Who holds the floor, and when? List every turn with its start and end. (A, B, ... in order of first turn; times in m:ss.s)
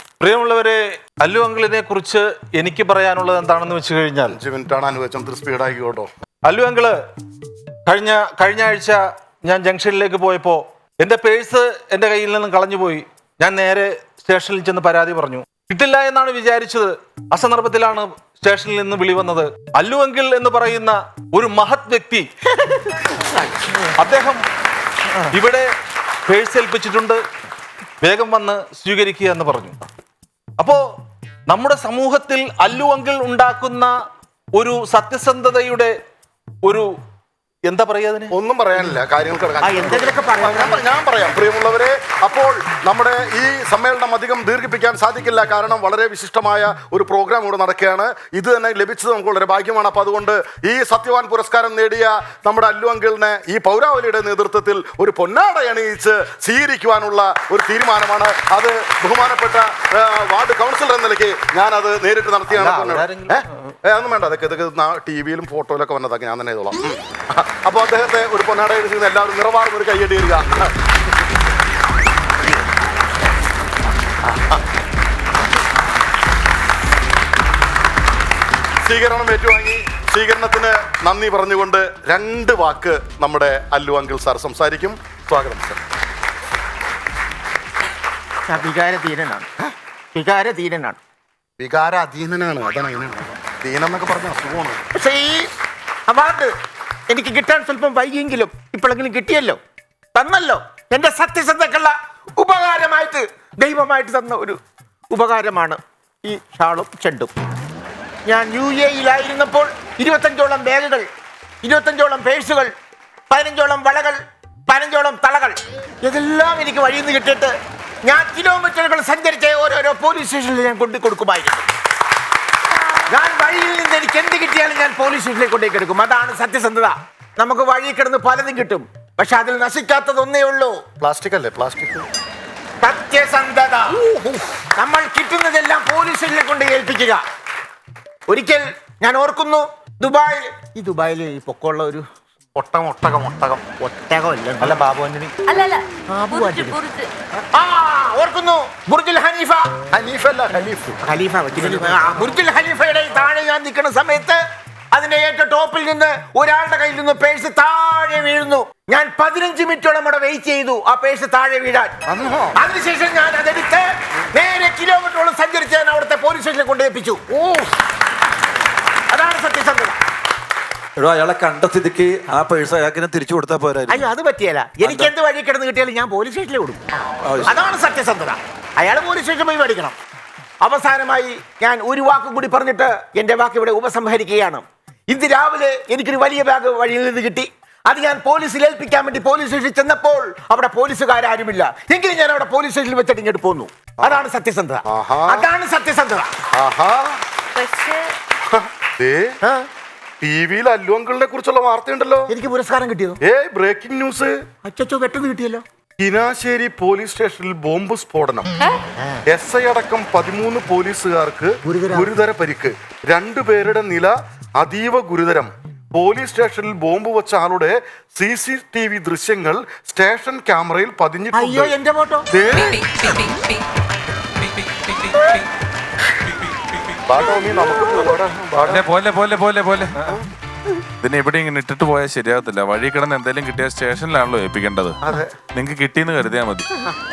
0:00.2-0:04.4 A
0:04.3-0:06.1 B
0:06.4-0:07.0 A
0:07.8-0:22.3 A
0:22.9-0:23.3 A
0:23.8-0:24.5 A
0:25.3-0:25.8 A
0:26.3-0:27.2 A
0:28.0-0:29.8 A
0:30.6-0:30.8 A
0:31.5-0:33.9 A
0:34.5-0:35.9 A
0:36.6-0:37.0 A
0:37.6-0:38.3 A
0:38.3-1:10.7 B
0:39.6-0:40.8 C
1:02.5-1:03.4 A
1:14.2-1:14.6 B
1:18.8-1:25.8 B
1:28.5-1:29.5 C
1:30.1-1:31.0 C
1:31.6-1:34.8 B
1:34.9-1:35.5 C
1:36.1-1:36.5 C
1:37.1-1:39.6 C
1:40.1-1:44.6 C
1:45.1-1:47.3 C
1:48.3-1:51.0 C
1:51.6-1:52.7 C
1:53.3-2:01.7 C
2:03.1-2:10.8 C
2:11.0-2:12.0 B
2:12.8-2:17.2 C
2:18.3-2:22.0 C
2:22.6-2:23.6 B
2:23.8-2:25.0 C
2:24.6-2:25.3 B
2:25.5-2:27.1 D
2:26.1-2:26.8 C
2:27.5-2:29.7 C
2:29.9-2:31.0 B
2:31.0-2:34.4 C
2:34.9-2:41.9 C
2:42.1-2:42.6 B
2:42.5-2:47.3 C
2:49.1-2:50.0 C
2:51.0-2:54.0 E
2:53.9-2:56.8 C
2:57.4-3:00.0 C
3:00.6-3:16.3 C
3:14.9-3:15.5 B
3:16.5-3:17.2 B
3:17.6-3:18.1 D
3:18.4-3:19.3 B
3:20.2-3:22.3 B
3:22.3-3:23.2 C
3:23.2-3:24.4 B
3:24.6-3:25.6 C
3:26.0-3:28.5 B
3:29.3-3:41.7 B
3:31.6-3:32.2 C
3:41.3-3:42.2 C
3:42.3-3:43.4 B
3:46.4-3:46.9 F
3:47.1-3:48.8 B
3:48.7-3:50.1 F
3:51.0-3:54.9 F
3:55.0-3:55.3 B
3:55.5-3:56.7 F